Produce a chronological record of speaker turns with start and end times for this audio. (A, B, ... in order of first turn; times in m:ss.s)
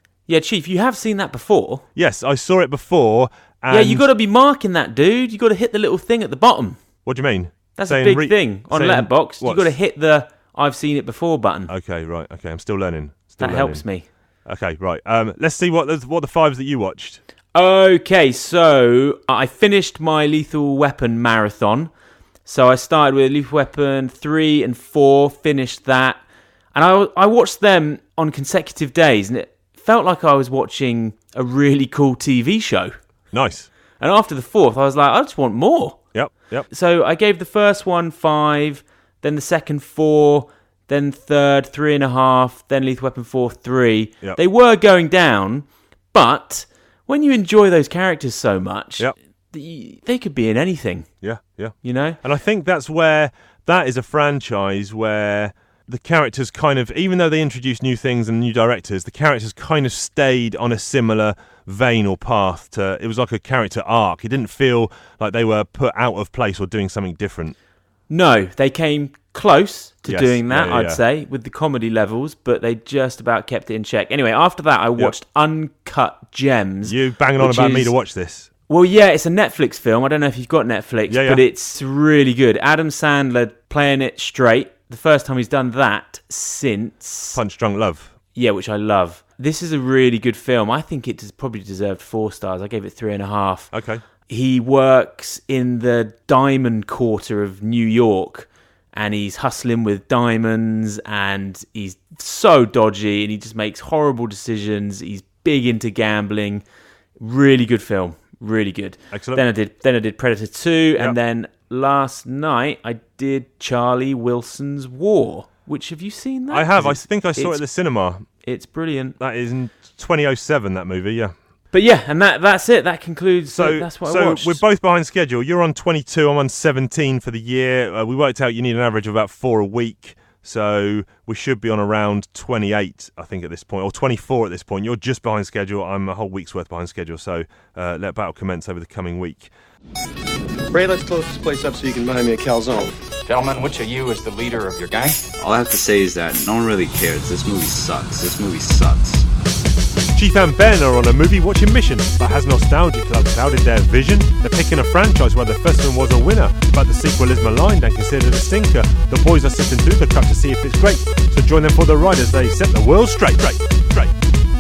0:00.3-0:01.8 A
0:02.0-0:04.0 B
0:03.7-0:06.8 A
0:07.0-0:09.8 B
0:07.8-0:11.7 A
0:11.7-0:13.8 B
0:13.4-0:14.1 A
0:14.4-0:17.2 B
0:17.5-0:21.9 A
0:22.5-0:26.2 A
0:26.7-0:32.9 A
0:33.3-0:33.7 B
0:34.0-0:36.0 A
0:36.1-0:36.7 B
0:36.7-0:51.1 A
0:51.2-1:07.6 B
0:51.8-0:52.2 A
1:08.1-1:17.9 A
1:10.0-1:11.0 B
1:16.8-1:18.5 B
1:18.7-1:27.4 A
1:21.1-1:21.4 B
1:27.3-1:28.2 B
1:28.4-1:33.7 A
1:33.7-1:34.0 B
1:34.3-1:46.6 A
1:47.2-1:57.6 A
1:49.1-1:49.4 B
1:56.5-1:58.2 B
1:58.4-1:59.2 A
1:59.2-2:01.4 B
2:01.7-2:04.6 A
2:03.5-2:19.5 B
2:20.7-2:23.0 C
2:23.2-2:25.3 D
2:25.4-2:29.3 E
2:30.2-2:44.1 B